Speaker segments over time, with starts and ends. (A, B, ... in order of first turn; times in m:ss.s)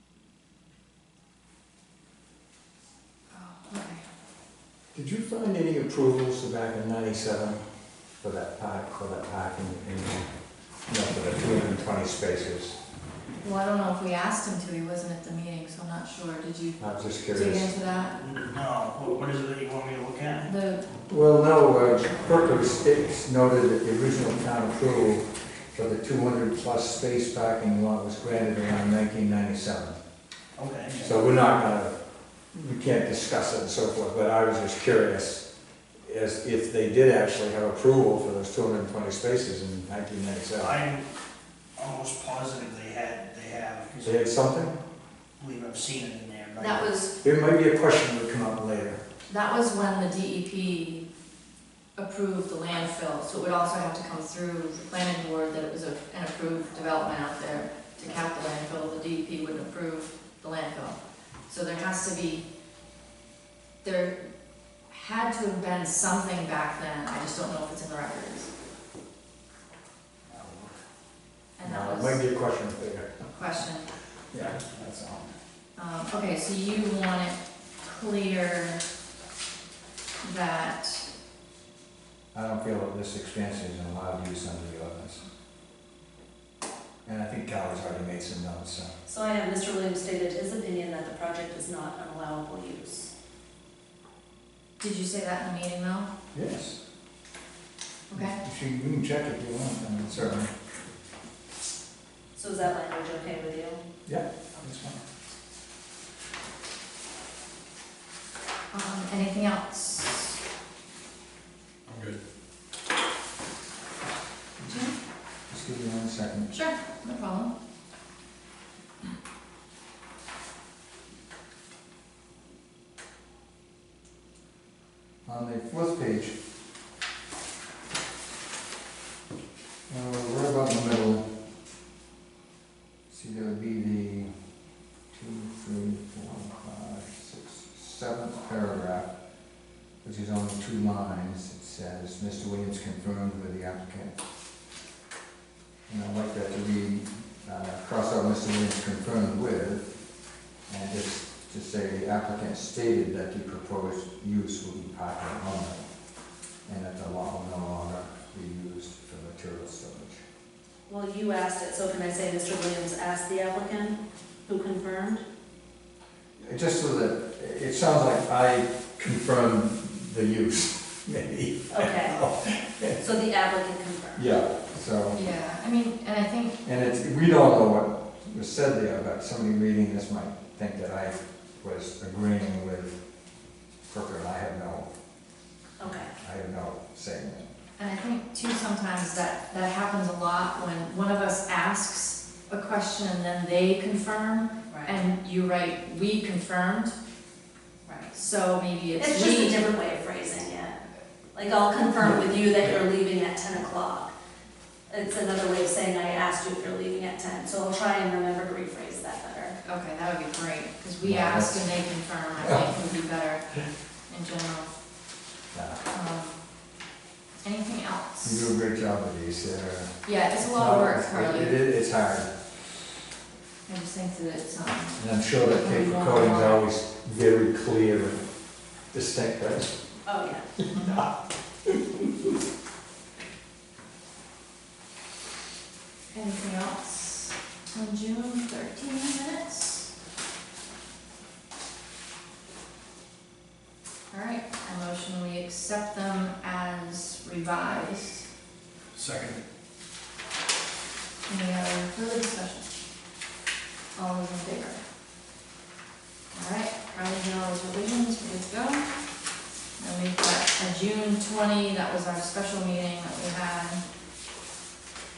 0:03.3-0:04.0 A
0:04.9-0:07.6 B
0:08.2-0:10.3 B
0:10.9-0:12.8 B
0:13.4-0:18.2 A
0:16.8-0:17.7 B
0:18.2-0:20.5 C
0:20.5-0:20.9 A
0:21.1-0:30.0 B
0:30.6-0:31.2 C
0:31.0-0:32.0 B
0:32.5-0:35.5 B
0:36.0-0:40.8 B
0:40.6-0:41.1 C
0:41.8-0:44.3 C
0:44.0-0:44.8 B
0:45.4-0:46.9 C
0:46.6-0:47.2 A
0:47.2-0:49.0 B
0:49.3-0:51.1 A
0:52.0-1:01.0 A
1:01.5-1:02.4 A
1:03.8-1:04.3 A
1:04.9-1:08.5 A
1:10.3-1:10.7 B
1:11.6-1:12.2 A
1:11.6-1:13.1 B
1:13.3-1:13.9 A
1:14.3-1:15.3 B
1:15.8-1:18.8 A
1:20.2-1:21.1 A
1:22.3-1:25.2 B
1:27.0-1:28.9 B
1:29.1-1:33.1 D
1:34.8-1:36.1 A
1:36.3-1:36.8 B
1:38.1-1:38.4 A
1:38.1-1:40.5 B
1:42.3-1:43.8 D
1:44.1-1:45.0 B
1:48.7-1:50.4 A
1:54.7-1:55.0 A
1:55.5-1:56.5 B
1:56.5-1:57.5 A
2:05.3-2:06.4 B
2:09.9-2:11.3 B
2:13.1-2:14.3 B
2:15.1-2:19.1 B
2:20.0-2:24.1 B
2:25.9-2:30.0 B
2:30.7-2:35.9 B
2:36.7-2:40.2 B
2:40.9-2:45.2 D
2:46.4-2:53.0 B
2:51.7-2:52.3 D
2:53.0-2:54.2 D
2:54.2-2:55.2 B
2:55.1-2:56.6 A
2:56.6-3:03.0 B
3:03.9-3:04.9 B
3:05.8-3:06.1 D
3:05.9-3:07.5 B
3:07.8-3:17.0 A
3:14.7-3:15.0 D
3:17.9-3:18.1 D
3:18.1-3:19.6 A
3:19.0-3:24.1 D
3:24.9-3:29.6 D
3:29.6-3:33.4 A
3:31.0-3:31.8 B
3:34.1-3:34.7 A
3:35.5-3:35.8 B
3:35.9-3:36.4 A
3:37.4-3:38.5 A
3:38.2-3:42.3 B
3:40.0-3:41.6 A
3:43.7-3:46.6 A
3:45.0-3:48.3 B
3:48.9-3:49.8 B
3:50.0-3:50.5 D
3:50.6-3:51.1 B
3:51.7-3:52.0 B
3:56.1-3:59.9 A
4:04.1-4:08.3 A
4:08.9-4:09.4 C
4:11.3-4:12.8 A
4:14.0-4:14.8 A
4:16.3-4:18.9 A
4:19.8-4:23.8 A